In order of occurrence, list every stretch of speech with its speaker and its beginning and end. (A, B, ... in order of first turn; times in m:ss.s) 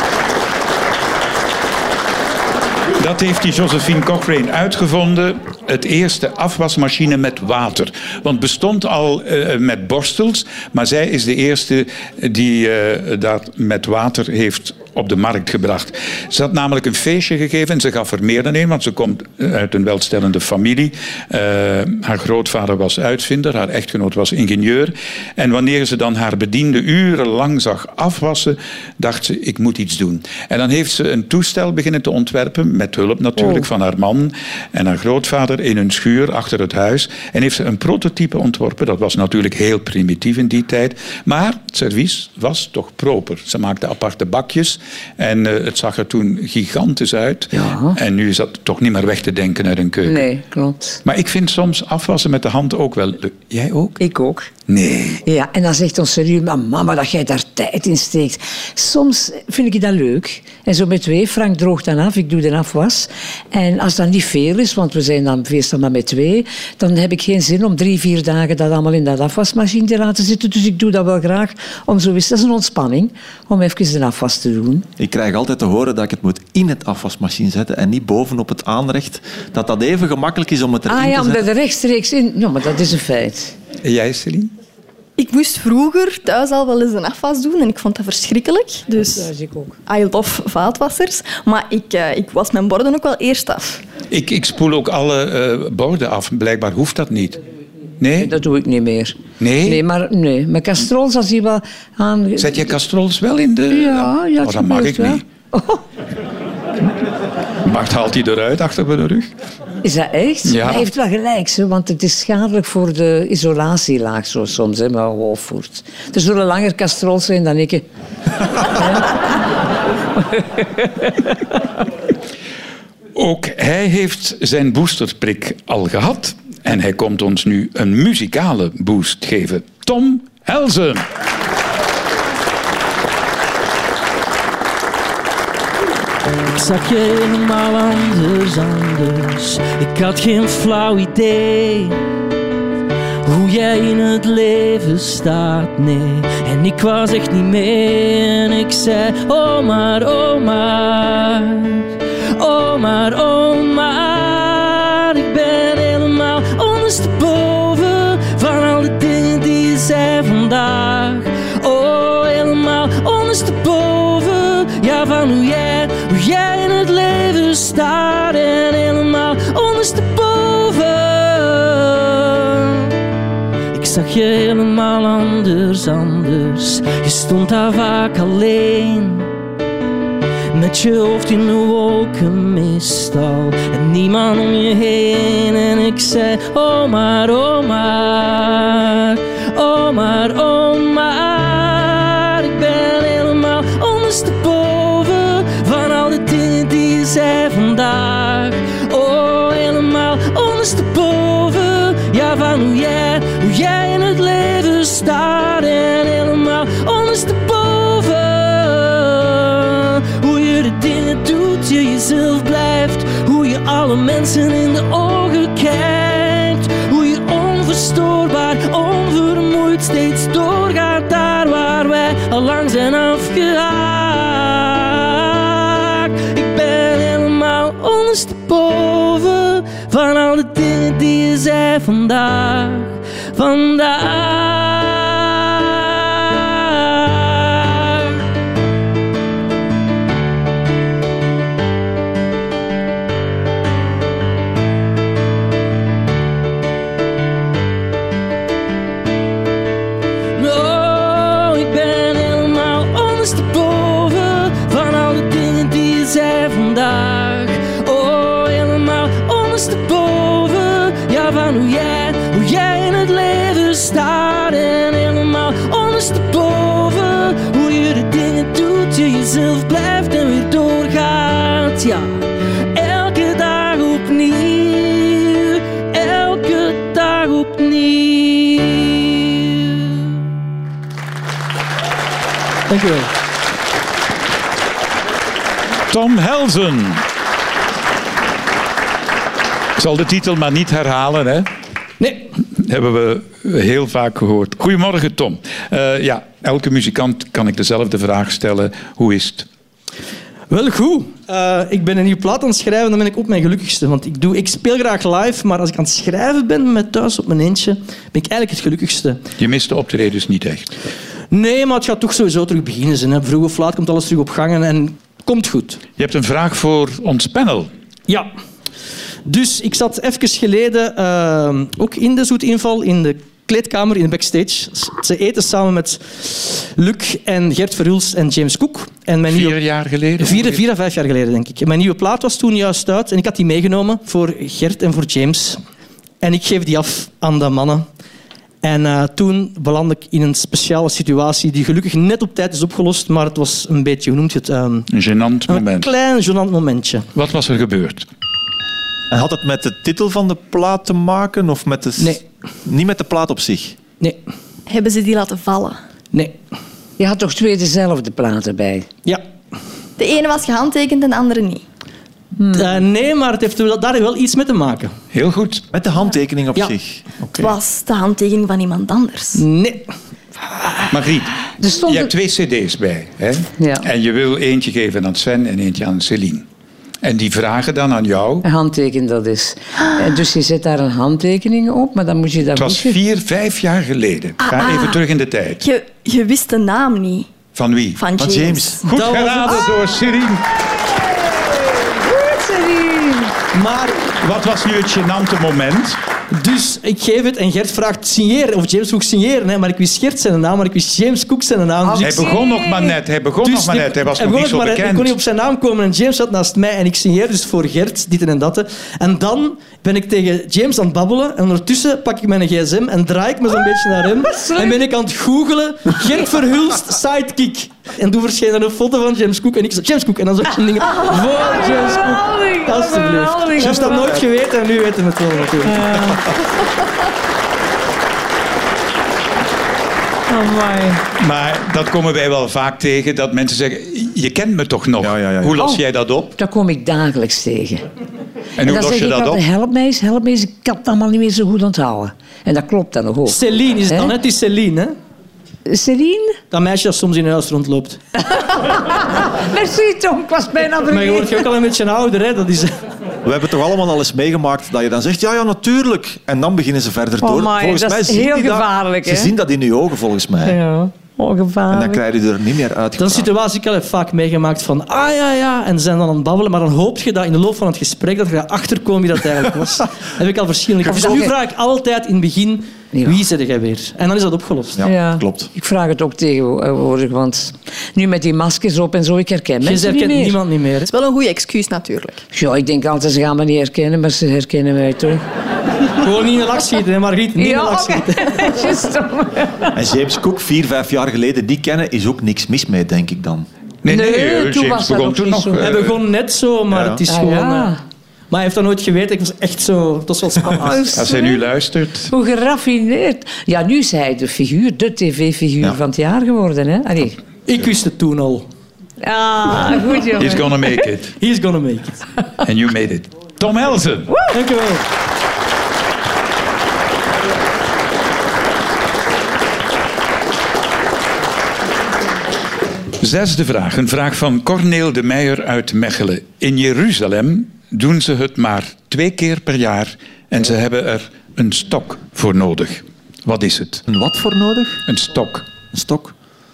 0:03.0-0:50.3 A
0:47.5-0:48.0 B
0:50.0-0:51.0 B
0:51.0-0:54.0 A
0:54.0-0:54.5 B
0:54.7-0:55.2 A
0:55.2-1:14.9 B
1:15.0-1:21.4 C
1:20.9-1:23.5 B
1:23.8-1:24.5 A
1:25.2-1:29.3 D
1:29.1-1:29.7 B
1:29.9-1:33.8 D
1:34.1-1:37.4 A
1:38.0-1:38.3 A
1:38.2-1:42.7 B
1:39.4-1:39.8 A
1:42.4-1:45.2 A
1:43.7-1:45.8 B
1:47.6-1:49.3 A
1:49.8-1:57.8 B
1:50.4-1:50.9 A
1:58.6-1:59.2 B
2:00.2-2:01.2 B
2:03.2-2:11.1 A
2:16.6-2:21.7 E
2:23.3-2:28.0 E
2:28.7-2:31.4 E
2:32.4-2:33.2 E
2:33.8-2:39.0 E
2:39.5-2:41.1 E
2:41.7-2:44.9 E
2:45.5-2:51.6 E
2:53.8-2:59.0 E
3:00.5-3:09.0 E
3:09.6-3:28.6 E
3:30.3-3:31.8 E
3:32.9-3:44.7 E
3:46.2-3:52.9 E
3:53.4-3:55.0 E
4:10.4-4:11.8 E
4:12.3-4:24.5 E
4:25.1-4:28.8 E
4:30.9-4:31.2 E
4:36.0-4:37.5 E
4:42.7-4:43.1 E
4:45.9-4:47.0 A
4:49.8-4:51.5 A
4:52.0-4:52.3 E
4:52.5-4:59.5 A
5:00.5-5:09.2 E
5:09.4-5:10.7 A
5:11.3-5:15.8 E
5:16.0-5:17.7 A
5:19.2-5:29.6 E
5:29.3-5:30.6 A
5:30.2-5:35.6 E
5:36.2-5:37.9 E
5:38.6-5:44.9 E
5:44.9-5:45.9 A
5:45.5-5:47.1 E
5:47.2-5:48.1 A
5:49.1-5:53.8 C
5:54.7-5:55.8 D
5:56.1-5:56.4 E
5:57.0-5:58.9 B
6:00.0-6:01.6 D
6:02.4-6:02.6 B
6:02.5-6:05.0 E
6:05.1-6:05.7 A
6:05.7-6:07.1 C
6:07.4-6:09.4 D
6:09.4-6:09.9 E
6:10.9-6:16.5 A
6:11.6-6:12.1 B
6:13.6-6:13.9 B
6:17.0-6:18.5 A
6:18.4-6:23.0 B
6:22.6-6:25.6 A
6:24.4-6:24.9 B
6:25.6-6:27.4 D
6:27.5-6:28.0 A
6:28.0-6:28.8 D
6:28.2-6:28.8 C
6:28.8-6:30.5 A
6:28.9-6:29.7 E
6:31.4-6:33.4 B
6:33.5-6:34.1 E
6:34.2-6:36.0 A
6:36.3-6:42.4 E
6:41.8-6:43.0 B
6:42.0-6:45.2 A
6:43.4-7:06.1 E
6:54.2-6:54.8 B
7:01.1-7:04.1 B
7:03.6-7:04.2 C
7:05.6-7:06.2 B
7:10.3-7:11.0 B
7:11.2-7:16.4 A
7:15.0-7:15.6 C
7:16.4-7:17.8 B
7:18.6-7:19.4 A
7:18.6-7:23.4 B
7:23.3-7:25.0 E
7:25.7-7:26.4 B
7:26.5-7:28.0 E
7:28.3-7:31.5 B
7:30.9-7:32.8 E
7:33.2-7:40.6 C
7:37.2-7:39.3 B
7:40.4-7:42.0 B
7:41.7-7:43.3 C
7:43.0-7:54.8 E
7:50.9-7:51.3 B
7:53.0-7:53.2 B
7:54.8-7:55.5 C
7:54.8-8:00.4 B
7:59.6-8:00.9 E
8:00.9-8:02.2 D
8:02.3-8:05.2 B
8:06.0-8:08.7 E
8:07.4-8:09.7 B
8:09.8-8:13.5 C
8:13.8-8:16.0 A
8:13.9-8:15.8 B
8:15.6-8:17.8 E
8:16.7-8:17.0 C
8:17.1-8:17.8 B
8:18.3-8:21.0 E
8:20.6-8:21.4 B
8:20.9-8:22.1 A
8:22.1-8:27.2 B
8:27.5-8:28.5 E
8:29.0-8:30.5 B
8:30.2-8:31.1 A
8:31.2-8:32.0 E
8:32.4-8:34.2 A
8:34.3-8:34.8 E
8:43.0-8:53.8 A
8:53.9-8:54.8 C
8:54.9-8:55.5 A
8:55.7-8:56.1 C